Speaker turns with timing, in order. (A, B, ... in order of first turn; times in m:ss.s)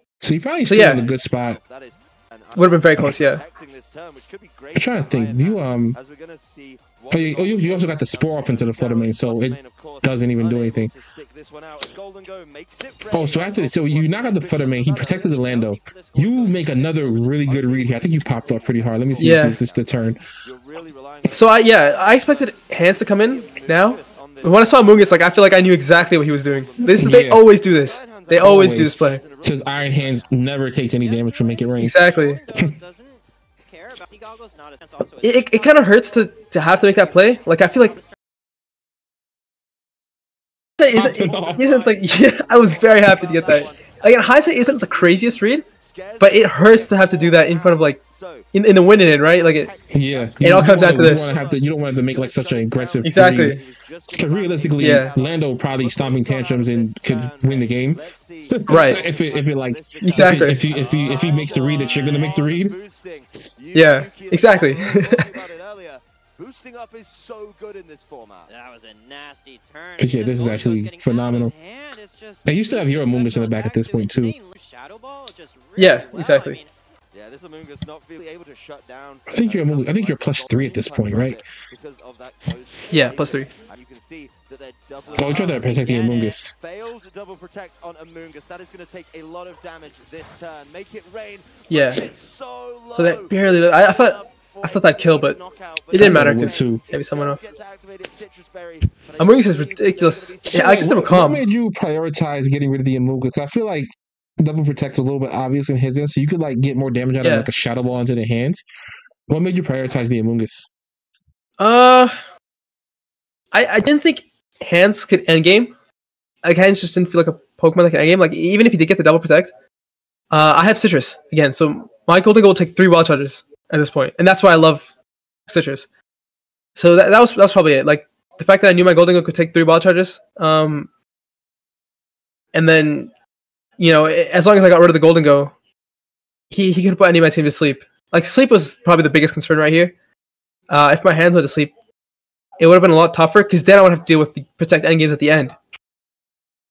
0:00.2-0:01.6 A
0:00.6-0:01.0 B
0:00.7-0:30.3 C
0:02.5-0:03.4 B
0:04.7-0:06.0 A
0:07.1-0:10.9 A
0:13.1-0:20.2 A
0:15.0-0:17.3 D
0:19.2-0:19.6 B
0:21.3-0:29.2 B
0:26.9-0:27.4 A
0:28.3-0:32.0 A
0:31.0-0:38.1 D
0:31.8-0:32.4 B
0:35.2-0:38.0 B
0:40.8-0:45.6 B
0:40.9-0:41.6 A
0:41.0-1:08.5 C
0:41.3-0:41.8 D
0:43.0-0:43.8 D
0:46.2-0:48.0 B
0:48.5-0:49.7 B
0:49.9-0:53.6 A
0:50.4-0:51.3 B
0:53.0-0:53.6 B
0:54.1-1:02.7 A
0:54.8-0:55.1 B
0:58.7-0:59.0 B
1:00.0-1:00.6 B
1:00.7-1:02.3 D
1:03.7-1:05.3 B
1:08.5-1:16.7 D
1:10.0-1:11.5 A
1:12.4-1:14.3 A
1:15.8-1:16.6 B
1:17.1-1:41.4 C
1:19.3-1:21.4 A
1:22.9-1:23.5 B
1:25.0-1:25.7 D
1:25.2-1:26.5 A
1:31.7-1:32.0 B
1:32.9-1:35.4 B
1:35.9-1:37.4 B
1:36.0-1:36.8 A
1:39.2-1:41.4 B
1:40.5-1:48.6 A
1:47.2-1:47.5 B
1:49.3-1:50.7 A
1:51.6-1:52.1 B
1:53.5-1:55.7 B
1:56.4-1:59.5 B
2:00.3-2:04.9 B
2:05.5-2:05.8 B
2:06.8-2:10.9 B
2:12.5-2:13.1 B
2:13.8-2:15.5 B
2:16.5-2:19.9 B
2:20.7-2:21.7 B
2:22.6-2:25.6 B